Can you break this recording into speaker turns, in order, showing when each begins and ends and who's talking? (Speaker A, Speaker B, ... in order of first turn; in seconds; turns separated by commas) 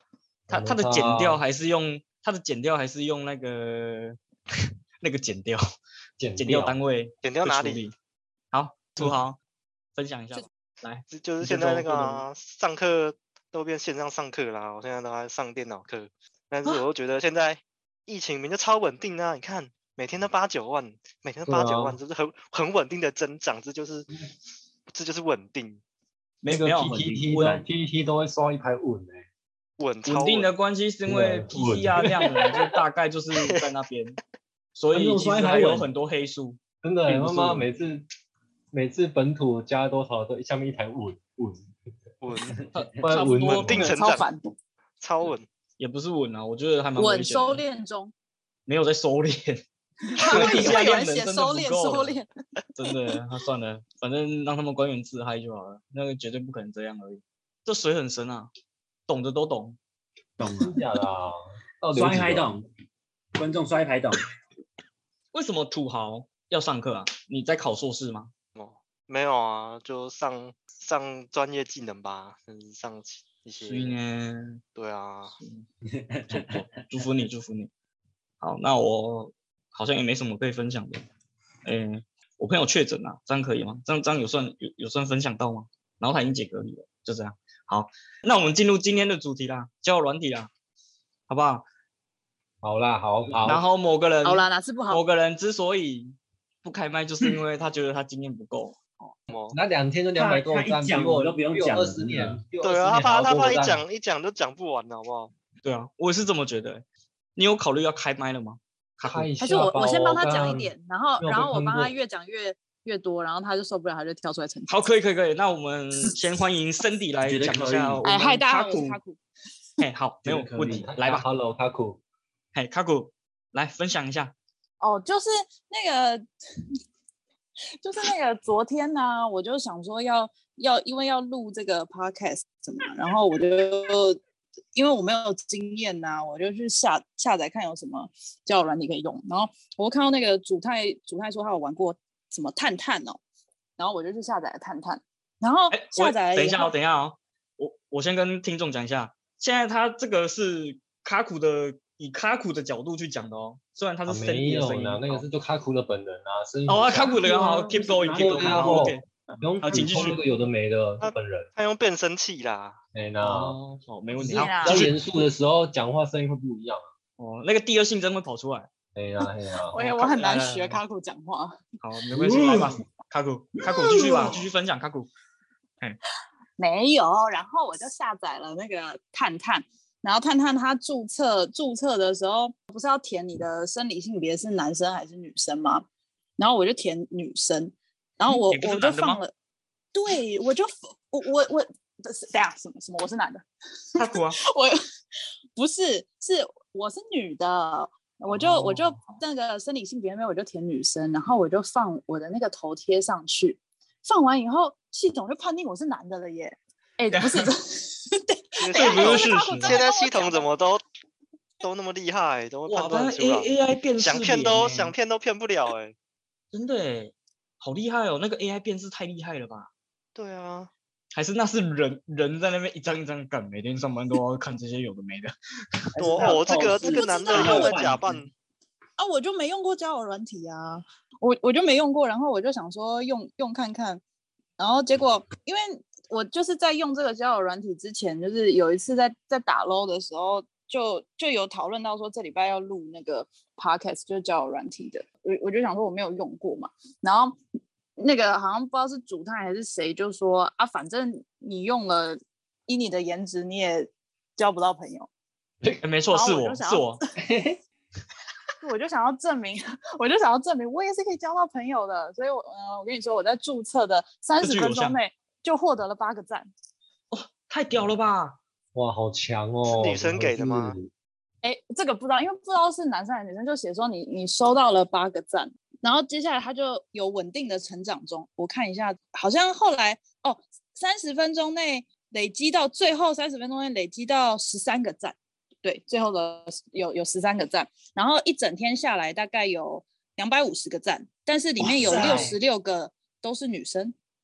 Speaker A: 0.5-1.4, Speaker B: 0.5-4.2, Speaker B: 5.0-5.6, Speaker A: 6.2-6.8, Speaker B: 6.4-7.9, Speaker C: 7.2-7.8, Speaker B: 8.5-9.4, Speaker B: 9.9-12.2, Speaker C: 11.1-24.1, Speaker A: 21.4-22.0, Speaker C: 24.9-25.8, Speaker B: 26.4-27.6, Speaker A: 26.5-29.2, Speaker D: 26.9-27.6, Speaker C: 29.8-30.5, Speaker B: 30.0-34.2, Speaker A: 31.1-32.3, Speaker C: 33.3-33.6, Speaker B: 34.8-37.7, Speaker D: 34.9-35.9, Speaker A: 36.8-38.0, Speaker A: 38.7-41.7, Speaker C: 42.2-42.6, Speaker D: 42.5-42.9, Speaker B: 42.7-43.9, Speaker A: 43.0-43.9, Speaker C: 43.6-44.3, Speaker E: 43.8-44.5, Speaker C: 45.0-45.5, Speaker B: 45.8-47.6, Speaker E: 47.0-48.1, Speaker B: 48.7-49.6, Speaker E: 50.0-52.3, Speaker B: 50.2-52.2, Speaker C: 50.3-50.8, Speaker B: 52.8-58.5, Speaker E: 52.8-53.1, Speaker B: 59.1-59.8, Speaker D: 60.4-60.8, Speaker A: 60.6-62.5, Speaker D: 61.9-62.6, Speaker D: 63.3-64.2, Speaker B: 65.3-68.3, Speaker C: 68.5-73.9, Speaker B: 73.6-74.6, Speaker C: 74.7-75.3, Speaker B: 75.4-75.6, Speaker D: 75.8-76.8, Speaker B: 76.3-77.7, Speaker B: 78.4-81.0, Speaker B: 81.6-90.5, Speaker B: 91.3-91.7, Speaker A: 92.6-93.6, Speaker B: 93.4-98.8, Speaker E: 94.2-95.0, Speaker C: 99.3-99.6, Speaker A: 99.5-103.8, Speaker D: 100.1-102.5, Speaker C: 102.6-105.3, Speaker B: 105.6-106.8, Speaker B: 107.3-109.3, Speaker A: 109.0-111.9, Speaker E: 109.4-114.8, Speaker B: 114.7-119.0, Speaker D: 117.2-118.1, Speaker E: 118.0-119.2, Speaker B: 119.8-121.2, Speaker D: 120.2-121.0, Speaker A: 120.7-122.0, Speaker B: 122.5-124.3, Speaker E: 124.8-126.2, Speaker E: 127.8-134.2, Speaker E: 134.7-143.2, Speaker E: 143.8-146.7, Speaker B: 145.7-155.2, Speaker A: 154.1-157.3, Speaker B: 156.7-159.0, Speaker D: 157.2-158.9, Speaker A: 158.1-161.5, Speaker B: 159.6-160.2, Speaker D: 159.7-160.1, Speaker C: 161.0-162.8, Speaker A: 162.9-163.6, Speaker B: 163.2-164.9, Speaker E: 164.2-164.8, Speaker A: 164.3-166.9, Speaker B: 167.2-168.7, Speaker A: 168.9-169.7, Speaker E: 169.7-171.6, Speaker B: 169.7-170.8, Speaker B: 171.8-175.1, Speaker D: 172.1-172.8, Speaker E: 173.6-174.4, Speaker D: 173.9-174.2, Speaker E: 176.6-185.8, Speaker E: 186.4-189.3, Speaker B: 188.3-189.2, Speaker E: 189.9-193.4, Speaker E: 193.9-194.8, Speaker B: 193.9-194.4, Speaker E: 195.6-210.5, Speaker B: 198.3-199.2, Speaker B: 207.1-207.5, Speaker C: 208.6-210.8, Speaker B: 208.7-209.8, Speaker C: 211.6-215.9, Speaker B: 212.7-214.9, Speaker B: 216.5-219.7, Speaker C: 220.2-220.7, Speaker B: 221.1-225.3, Speaker D: 225.9-228.2, Speaker C: 226.0-228.3, Speaker E: 226.8-227.8, Speaker E: 229.0-234.0, Speaker E: 234.6-247.4, Speaker E: 248.0-255.1, Speaker B: 255.8-257.0, Speaker E: 256.1-257.0, Speaker E: 258.6-266.5, Speaker B: 264.4-265.0, Speaker B: 267.1-268.4, Speaker A: 268.7-270.9, Speaker C: 269.7-270.8, Speaker E: 271.4-293.9, Speaker D: 291.6-292.4, Speaker A: 291.8-292.3